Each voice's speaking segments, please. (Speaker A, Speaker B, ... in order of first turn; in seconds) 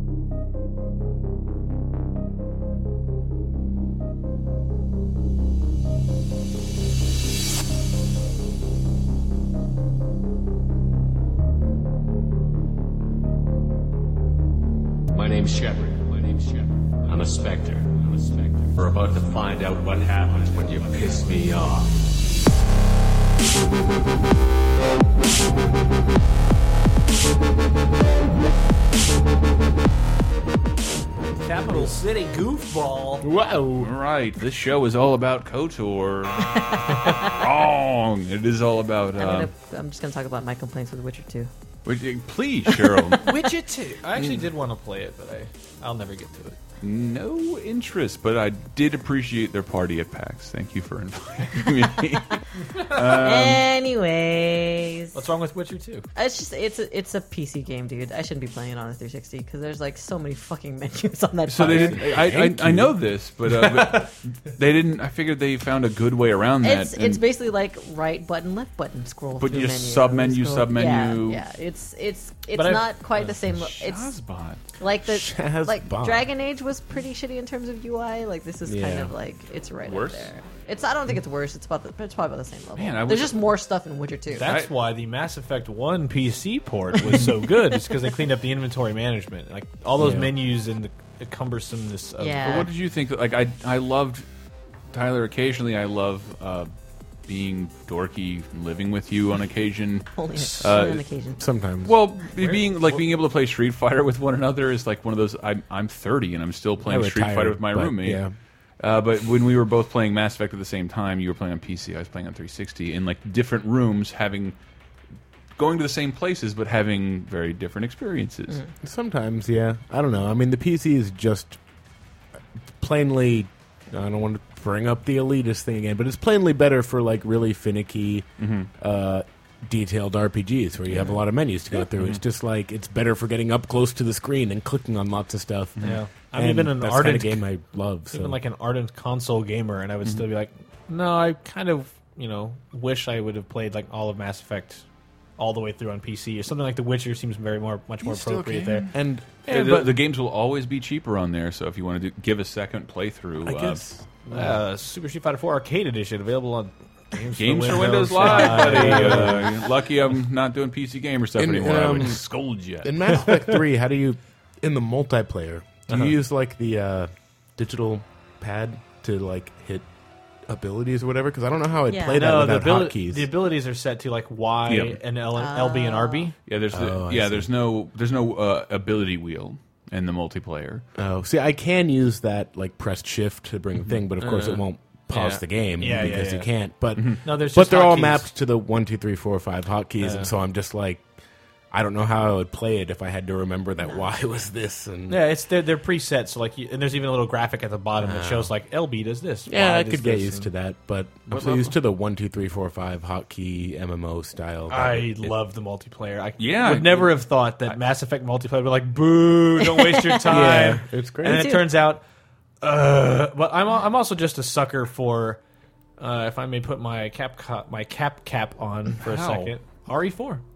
Speaker A: 15.1-22.2
Speaker B: 31.4-33.3, 43.2-46.6, 55.1-56.1, 63.5-64.1, 72.5-72.9, 84.3-92.7, 135.8-137.4, 138.1-144.8, 145.4-148.9, 149.5-149.9, 154.3-159.5, 165.9-166.1, 172.1-176.3, 184.2-184.6, 185.1-186.5, 187.2-188.3, 190.0-190.3, 195.1-200.5, 204.7-212.0, 212.6-215.4, 216.0-220.4
Speaker C: 33.2-33.9, 61.6-63.0, 75.0-76.3, 78.7-79.1, 90.0-90.3, 101.4-102.0, 106.8-108.3, 118.8-121.6, 122.8-138.4, 148.8-149.3, 153.4-154.5, 158.4-159.5, 161.4-162.2, 162.8-169.9, 170.5-173.3, 176.7-177.5, 181.0-191.1, 191.7-195.2, 198.0-198.5, 199.5-205.3, 210.2-211.6
Speaker D: 33.8-39.5, 41.9-43.4, 46.8-53.7, 61.5-67.2, 69.4-71.4, 73.2-74.6, 79.8-80.3, 82.8-83.5, 84.4-84.7, 92.4-94.2, 94.9-96.7, 97.3-101.0, 101.8-108.2, 108.8-114.6, 115.6-118.6, 128.4-128.7, 131.8-132.2, 148.0-153.8, 157.3-163.1, 174.7-175.0, 176.5-180.8, 187.0-187.2, 201.3-201.7, 206.4-207.2, 219.0-219.5
Speaker E: 36.6-37.1, 39.2-41.5, 53.0-55.2, 56.2-62.1, 66.6-74.1, 74.8-84.5, 92.2-92.7, 100.2-101.4, 171.9-172.4, 175.3-176.3, 209.6-210.6, 211.2-211.7